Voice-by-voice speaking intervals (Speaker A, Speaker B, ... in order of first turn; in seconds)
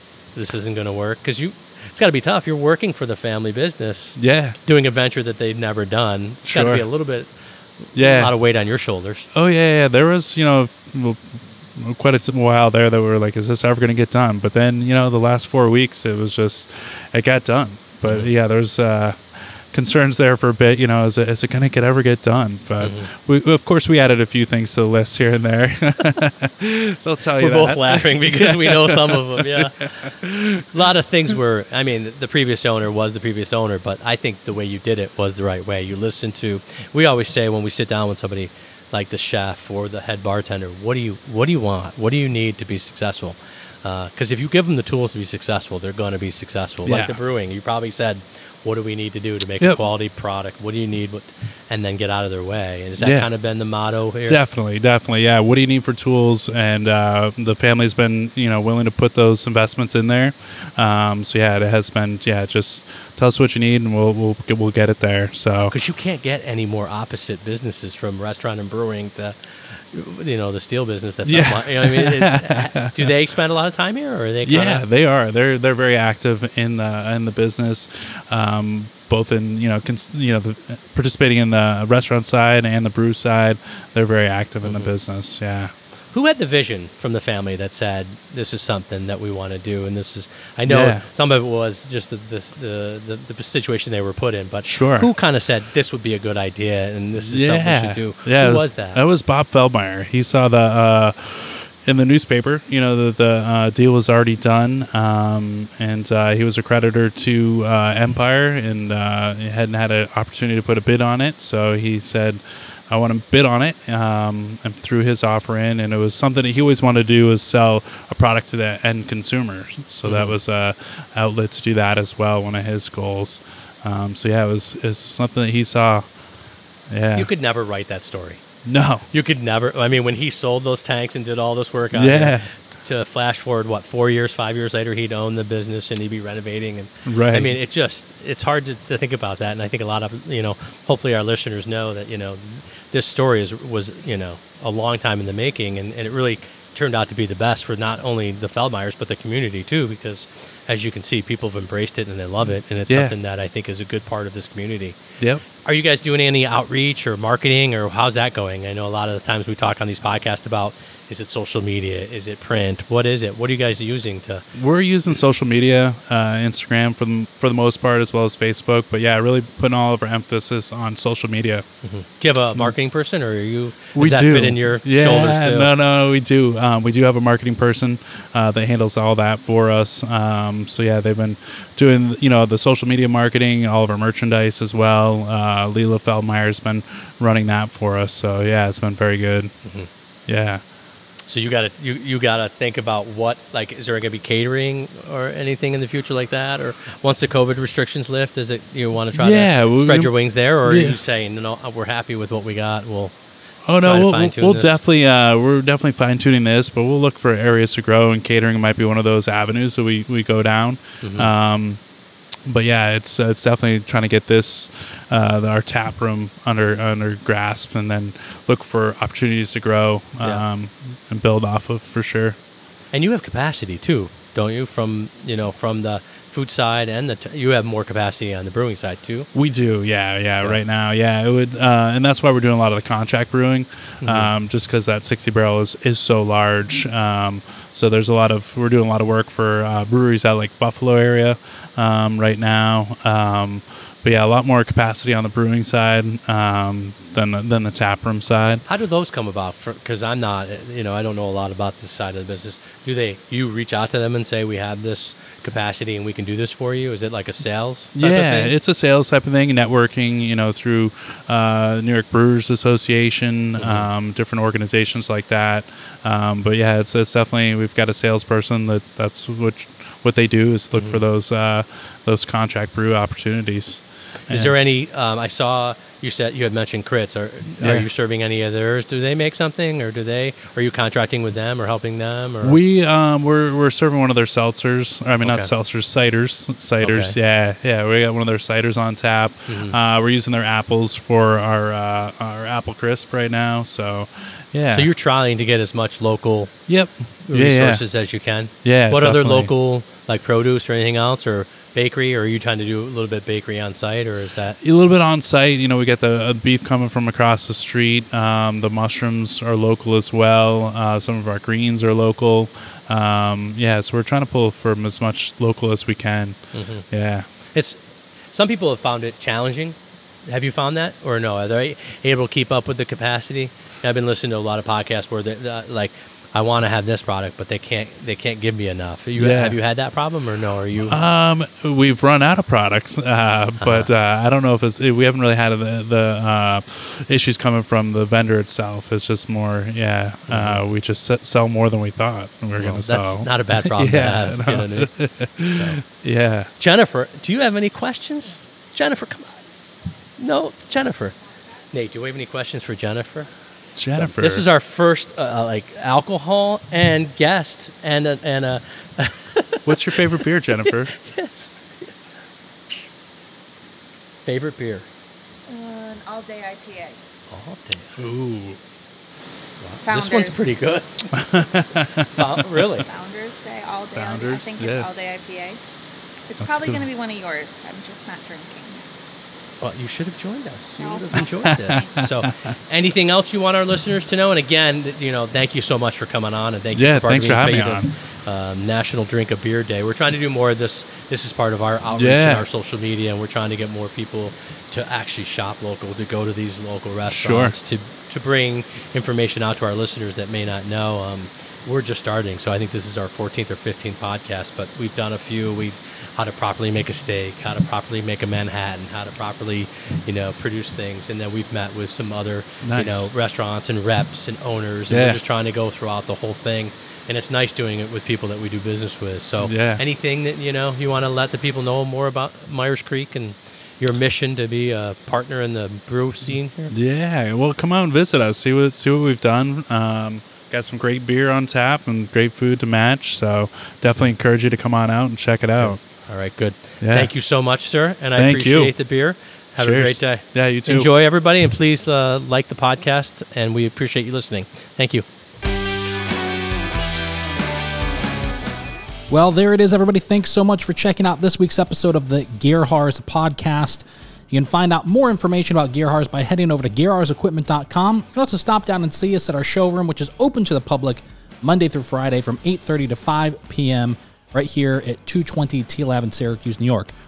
Speaker A: 0.3-9.3, 18.0-18.3, 22.8-23.1, 27.4-54.4, 65.7-74.8, 84.6-84.9, 86.1-99.0, 120.0-120.3, 127.1-128.4, 129.1-155.0, 155.6-164.4, 171.8-175.7, 191.3-203.2, 203.8-204.8, 211.0-211.3, 222.9-229.3, 234.0-234.3, 248.7-258.5, 263.6-263.9, 270.8-271.0, 274.3-282.6, 285.2-285.5, 286.8-287.1, 289.5-289.8, 294.7-296.5, 297.3-304.6, 316.5-316.9, 317.5-317.8, 318.3-331.0, 333.6-333.9, 340.3-340.6, 342.6-344.9, 345.4-345.8, 346.6-349.4, 350.2-351.2, 351.7-353.3, 353.9-361.9, 364.3-364.9, 367.3-368.0, 369.6-370.9, 372.0-372.9, 379.6-426.7, 435.6-445.1
Speaker B: 4.2-4.6, 6.5-6.8, 8.0-8.3, 9.3-30.7, 46.8-47.2, 53.0-53.3, 54.3-65.7, 71.3-73.1, 74.5-85.7, 90.7-91.0, 94.7-95.1, 97.2-126.1, 126.9-127.3, 128.7-129.1, 131.9-132.5, 137.1-137.5, 152.9-153.1, 164.5-171.7, 174.0-189.5, 190.3-190.6, 199.2-201.0, 203.7-211.8, 212.5-222.4, 229.3-248.6, 258.0-274.5, 277.6-277.9, 282.4-294.9, 296.7-297.8, 298.6-299.5, 304.6-317.3, 329.2-329.6, 330.9-346.5, 353.8-354.4, 359.6-361.0, 368.0-368.6, 371.1-372.5, 373.9-374.9, 376.4-376.9, 381.7-382.5, 386.8-387.9, 392.0-392.4, 397.1-397.5, 412.6-413.1, 414.9-415.2, 419.4-419.8, 426.7-435.8, 436.8-437.1, 438.2-438.8, 439.6-440.9
Speaker C: 365.5-367.0, 369.9-370.5, 372.8-375.6, 376.3-378.9, 380.8-382.0
Speaker D: 449.1-466.9